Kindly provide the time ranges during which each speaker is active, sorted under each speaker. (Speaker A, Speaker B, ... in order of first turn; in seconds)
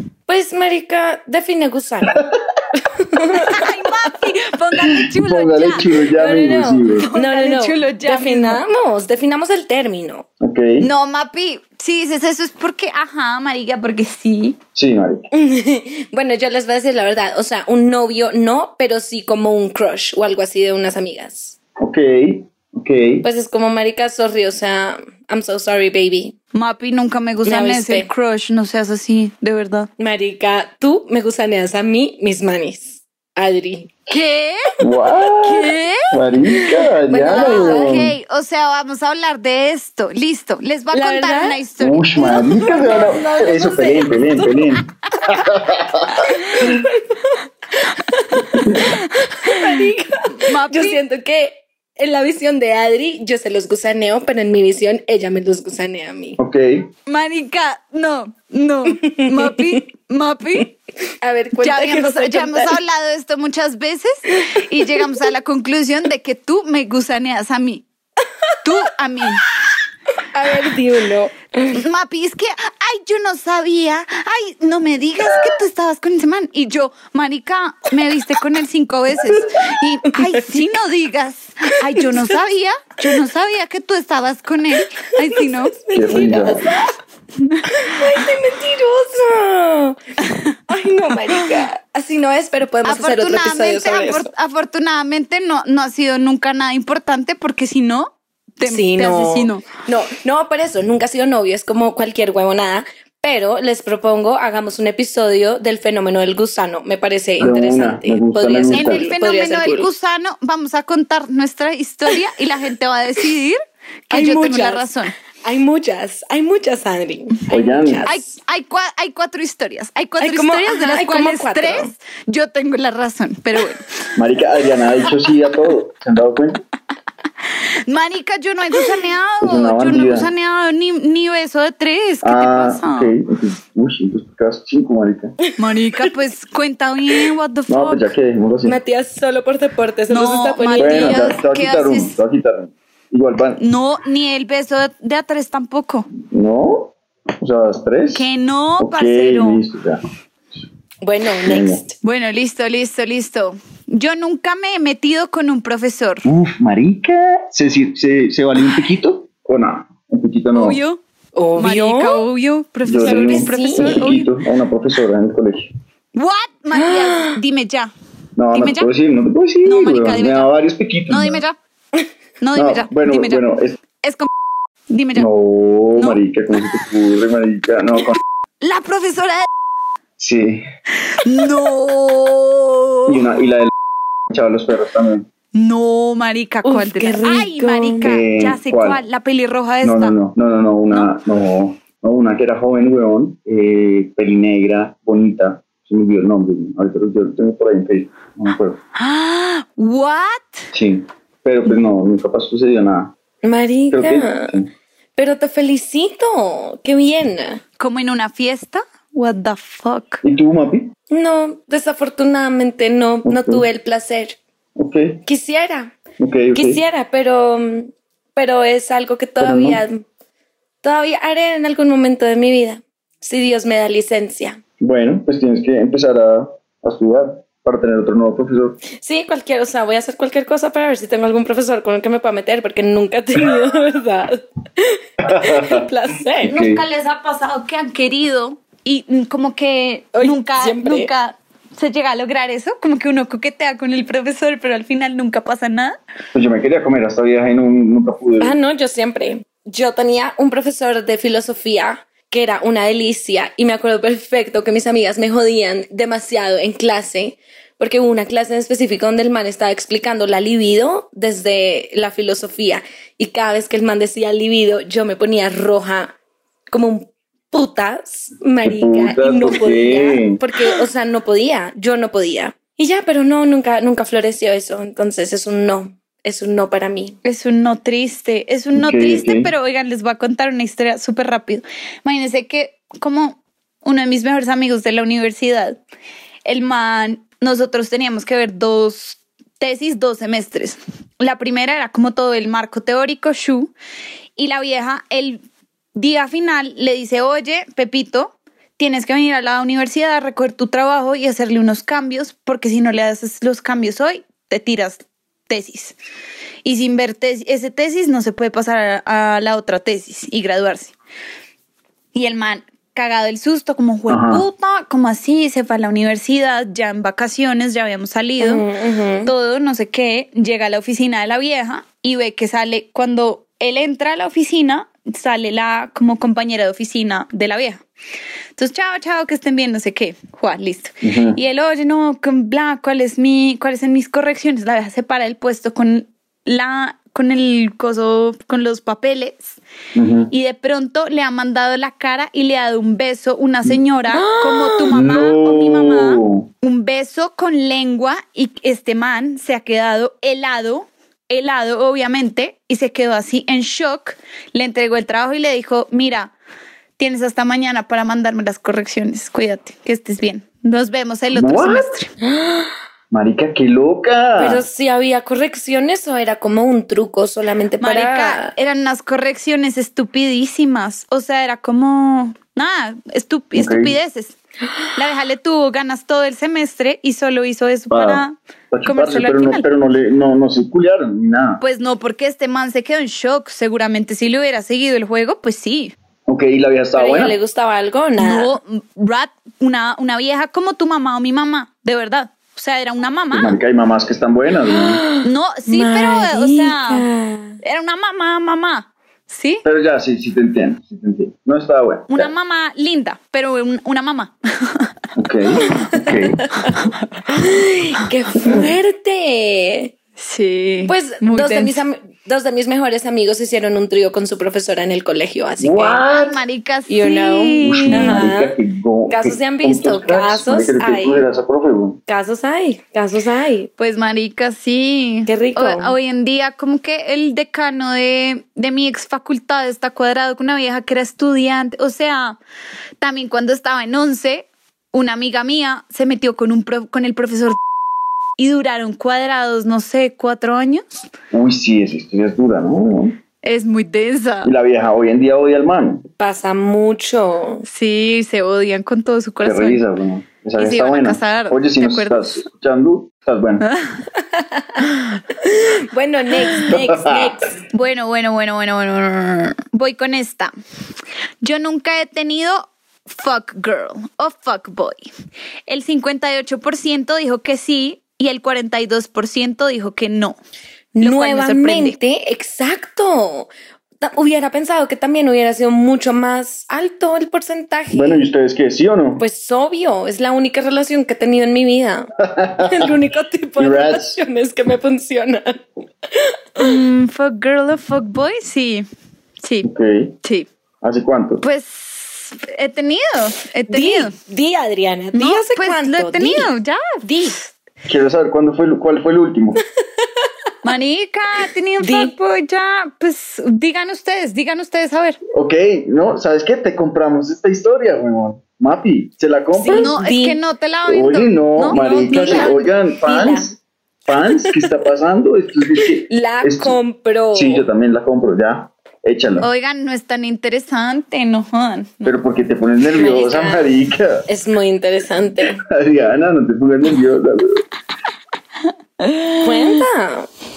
Speaker A: 0.3-2.2, 2.7-4.1, 6.1-10.2, 15.3-21.6, 23.2-26.4, 27.4-28.1, 30.0-33.9, 36.7-38.0, 40.9-41.6, 42.2-44.7, 46.2-56.4, 59.0-59.8, 61.2-62.8, 70.3-71.8, 80.0-80.7, 82.0-82.3, 85.2-86.9, 87.6-90.0, 90.7-94.3, 98.6-109.9, 114.1-114.9, 115.4-118.2, 120.2-121.9, 138.6-141.3, 151.0-151.9, 161.3-162.2, 163.0-164.1, 166.7-167.3, 186.6-188.1, 203.4-204.5, 205.2-207.6, 211.1-214.4, 215.2-216.0, 216.5-220.0, 220.8-224.6, 229.0-236.6, 240.1-241.1, 248.4-266.1, 266.7-277.2, 318.4-319.3, 344.1-344.9, 362.2-362.7, 364.4-368.5, 386.9-388.5, 394.7-397.6, 405.7-409.9, 410.9-416.0, 416.9-418.6, 419.1-421.2, 422.1-423.7, 425.3-425.9, 446.2-447.6, 454.3-454.8, 455.4-457.5, 470.9-473.5, 474.0-478.2, 479.2-482.1, 482.6-486.7, 493.7-496.5, 501.8-502.1, 509.6-510.4, 511.6-513.5, 514.4-514.7, 515.8-517.6, 522.8-523.7, 524.3-525.6, 529.4-530.3
Speaker B: 3.3-5.9, 7.1-8.6, 10.8-14.6, 26.5-29.9, 34.1-34.7, 35.4-36.1, 37.3-42.9, 48.7-51.0, 57.1-60.7, 61.6-67.8, 68.6-69.4, 71.7-85.7, 87.4-87.7, 92.8-99.7, 108.7-115.1, 118.0-123.9, 127.9-133.1, 135.6-138.1, 140.1-142.1, 143.6-146.1, 148.1-149.6, 152.0-156.3, 160.5-161.0, 161.6-164.3, 166.1-167.9, 168.5-168.9, 169.6-170.5, 171.1-171.6, 172.4-173.4, 174.0-174.3, 174.9-175.3, 178.6-179.5, 181.2-183.2, 185.5-190.1, 198.9-200.7, 207.8-210.2, 236.4-245.9, 277.2-285.8, 286.4-293.7, 294.4-295.4, 295.9-306.0, 306.6-310.9, 312.1-318.6, 319.2-327.8, 328.6-339.6, 340.3-356.3, 357.0-362.1, 367.8-374.4, 374.9-379.7, 381.6-385.9, 388.2-393.6, 395.2-397.0, 397.6-399.6, 402.1-404.9, 406.6-407.2, 410.2-411.8, 416.2-418.2, 423.8-432.4, 433.0-437.6, 438.4-440.8, 443.4-444.5, 447.6-449.8, 450.6-452.4, 457.7-460.5, 461.4-465.0, 465.7-470.4, 471.0-472.0, 486.6-488.9, 489.4-489.7, 490.2-490.5, 491.4-494.1, 495.1-497.5, 500.6-505.2, 509.7-512.5, 519.4-522.1, 529.0-529.8
Speaker C: 4.8-7.1, 10.4-10.9, 14.7-15.3, 21.8-23.2, 34.8-38.1, 41.8-46.8, 56.4-56.9, 85.9-86.7, 107.4-109.0, 117.5-118.1, 124.2-126.6, 129.4-130.3, 132.2-135.3, 137.7-138.8, 140.8-143.6, 146.3-148.3, 148.8-150.0, 151.4-151.8, 156.2-160.8, 162.8-165.7, 168.4-171.4, 172.5-173.8, 175.2-178.2, 180.2-180.6, 183.1-183.7, 184.3-185.3, 188.0-189.0, 189.8-198.8, 200.7-203.1, 203.9-204.7, 210.2-210.9, 213.2-213.7, 214.8-215.2, 216.2-216.8, 219.4-219.8, 224.8-228.8, 235.2-235.8, 236.4-236.8, 246.3-248.6, 268.6-270.4, 278.7-279.5, 314.1-314.4, 331.0-331.4, 339.9-340.3, 344.9-346.5, 361.3-361.9, 363.1-364.6, 373.5-373.9, 377.9-381.6, 386.3-387.4, 393.3-395.0, 399.6-402.3, 405.1-406.4, 415.6-416.4, 417.6-422.0, 441.3-443.2, 444.4-446.0, 449.4-453.7, 456.7-457.4, 477.9-479.2, 482.2-482.9, 483.6-484.2, 489.6-490.1, 490.8-491.4, 497.9-499.6, 505.3-510.0, 510.9-513.5, 514.1-516.8, 517.3-519.5, 522.0-524.2, 525.4-527.6